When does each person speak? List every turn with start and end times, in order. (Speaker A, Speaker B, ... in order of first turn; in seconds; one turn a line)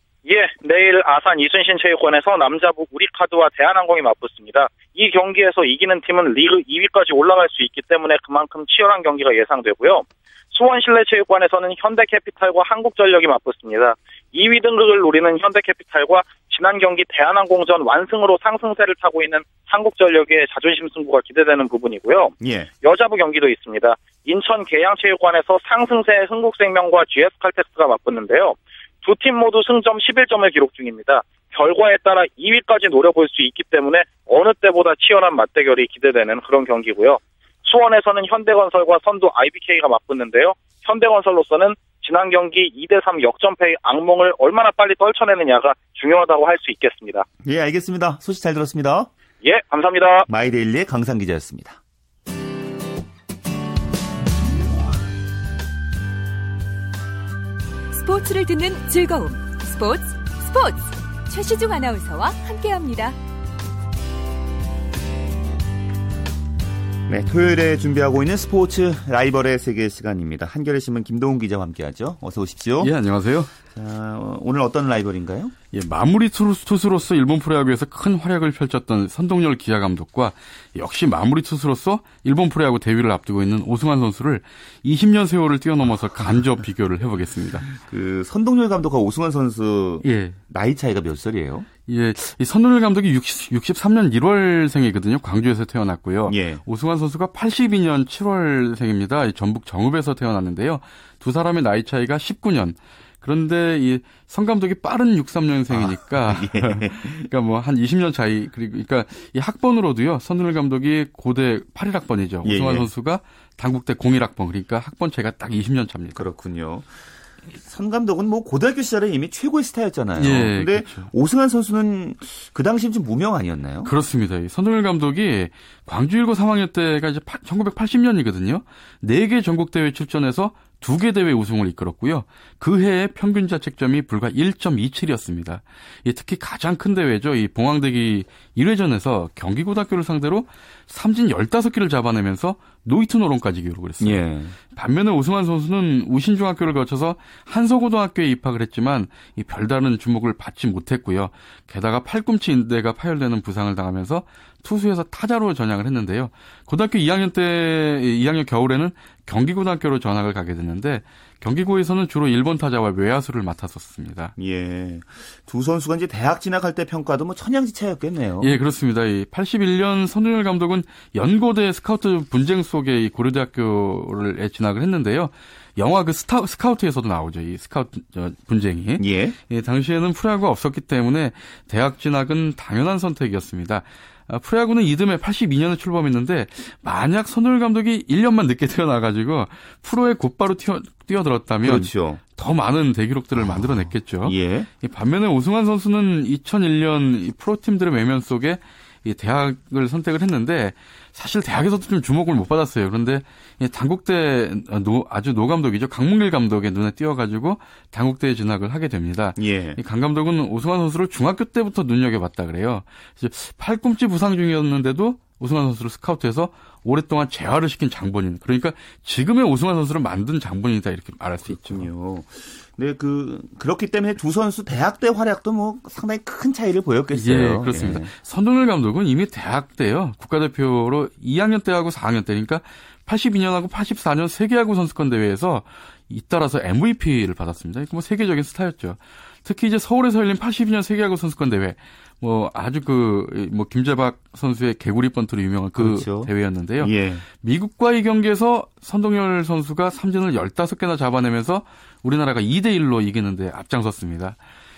Speaker A: 0.2-47.2
Speaker B: 22.4-22.7
Speaker B: 47.4-49.1
Speaker A: 49.4-50.3
Speaker B: 50.3-51.8
Speaker C: 57.9-63.1
Speaker B: 67.1-72.9
Speaker D: 72.8-73.5
Speaker B: 73.7-75.5
Speaker D: 75.7-87.7
Speaker B: 87.8-91.7
Speaker D: 90.0-90.4
Speaker D: 91.9-116.2
Speaker B: 96.3-96.6
Speaker B: 105.7-107.3
Speaker B: 112.4-112.9
Speaker B: 116.1-117.0
Speaker B: 117.5-123.9
Speaker D: 120.2-121.1
Speaker D: 123.8-164.3
Speaker B: 144.0-144.6
Speaker B: 164.4-168.6
Speaker D: 168.4-221.9
Speaker B: 179.0-179.3
Speaker B: 191.6-192.2
Speaker B: 193.4-194.7
Speaker B: 209.3-209.8
Speaker B: 221.4-228.1
Speaker D: 227.1-254.4
Speaker B: 245.7-247.2